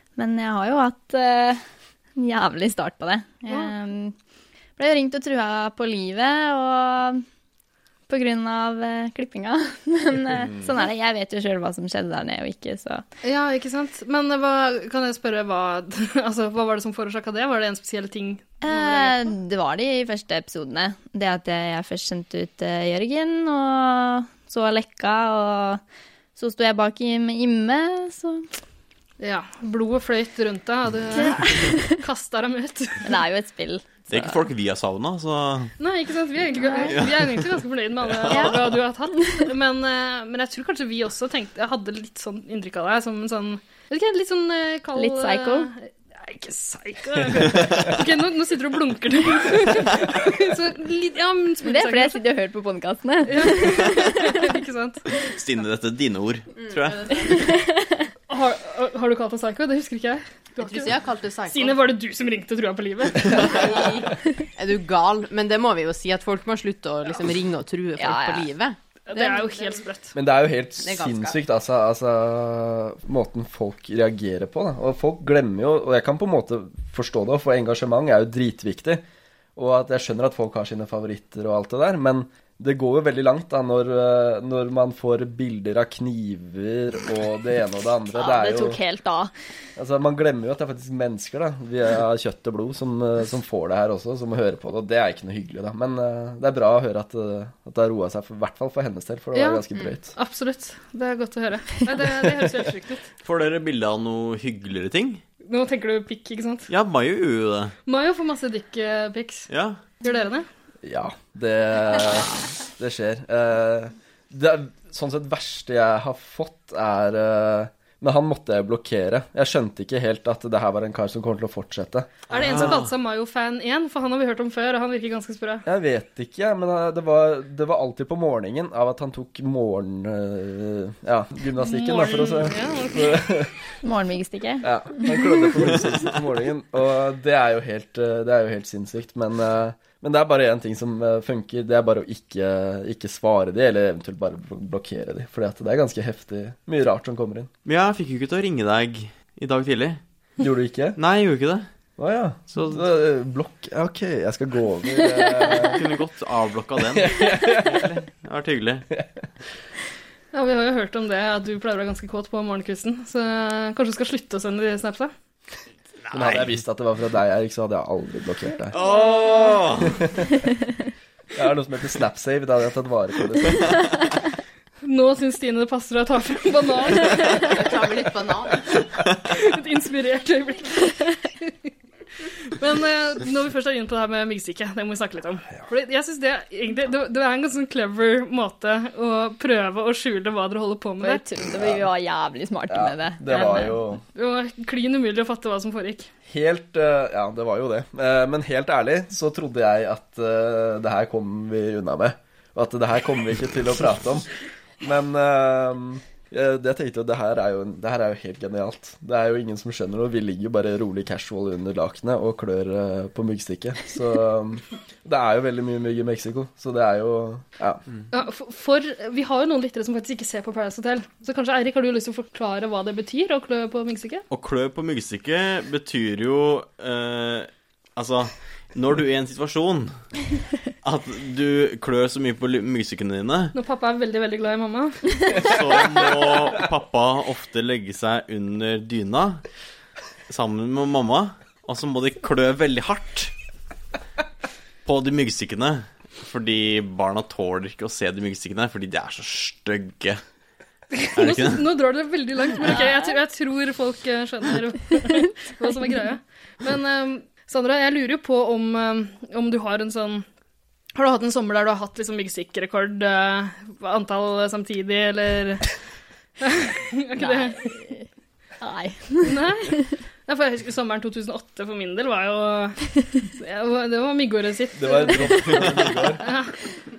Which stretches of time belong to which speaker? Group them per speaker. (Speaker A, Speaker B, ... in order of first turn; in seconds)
Speaker A: 0.2-1.6, 2.2-4.2, 4.8-7.2, 8.1-13.0, 18.6-25.8, 26.4-28.5, 31.1-32.0, 33.0-34.4, 36.6-37.0, 38.3-38.6, 39.2-39.5, 45.0-45.7, 51.6-54.4, 57.5-58.0, 68.0-68.5, 69.2-69.4, 88.2-89.3, 133.8-135.3, 191.0-193.8, 252.7-253.1, 267.2-268.1, 268.6-269.9
Speaker B: 13.2-19.3, 29.2-33.1, 35.8-52.2, 53.3-55.0, 58.3-60.9, 61.5-63.9, 69.1-70.1, 99.3-103.0, 105.4-106.7, 107.9-109.5, 110.0-110.5, 122.3-125.7, 131.6-133.3, 160.3-165.1, 174.8-177.5, 179.3-181.5, 182.5-191.2, 194.2-196.1, 218.1-224.2, 233.5-235.3, 250.9-260.2, 260.9-265.7, 266.4-267.7, 269.2-275.7, 276.2-276.5
Speaker C: 34.1-35.7, 36.8-37.5, 38.0-38.6, 55.2-57.1, 103.2-105.2, 106.7-107.7, 109.5-109.8, 122.3-122.9, 147.7-150.0, 151.0-151.7, 152.5-152.8, 155.6-158.9, 166.1-166.5, 168.7-170.0, 224.3-229.9, 230.8-233.5, 235.4-239.4, 240.3-243.3, 244.8-250.2, 251.2-251.7
Speaker D: 56.6-57.5, 60.6-61.8, 63.3-68.8, 70.8-71.4, 177.4-178.6
Speaker E: 70.2-79.0, 79.6-88.8, 89.8-100.1, 110.8-122.8, 125.7-133.5, 134.6-147.5, 150.4-151.0, 152.0-155.8, 157.0-157.8, 166.1-168.7, 169.9-170.3, 171.4-173.6, 191.6-191.8, 192.7-194.0, 196.3-204.3, 204.8-217.8, 274.8-276.2